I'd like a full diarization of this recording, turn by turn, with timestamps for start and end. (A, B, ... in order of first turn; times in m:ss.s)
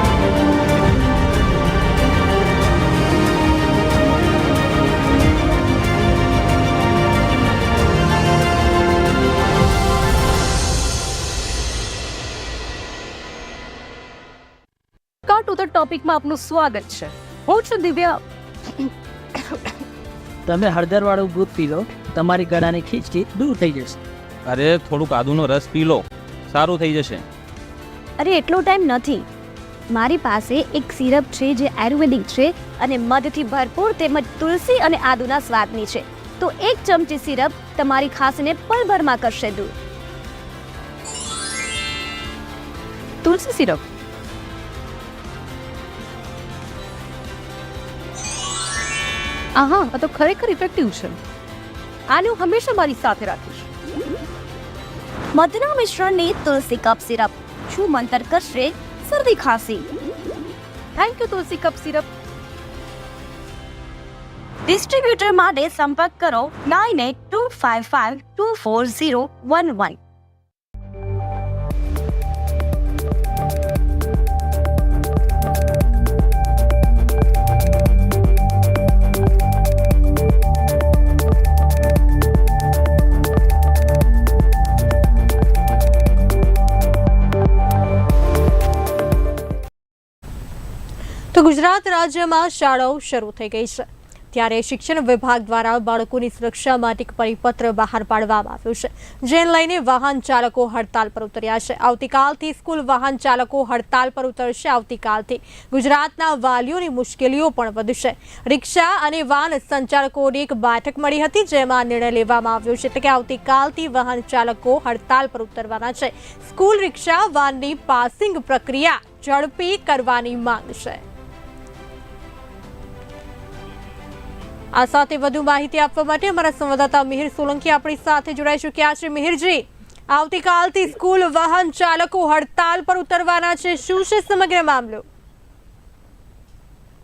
0:15.2-0:18.0 A
0:17.9-0:18.2 B
0:20.4-0:24.0 C
0:24.5-0:27.2 D
0:28.2-0:29.2 B
0:29.9-0:39.7 B
0:43.2-0:43.8 A
0:49.5-0:51.2 A
0:52.1-0:53.7 A
0:55.3-0:59.9 B
1:01.0-1:02.1 A
1:04.7-1:10.0 B
1:31.3-2:01.0 E
2:04.7-2:15.0 E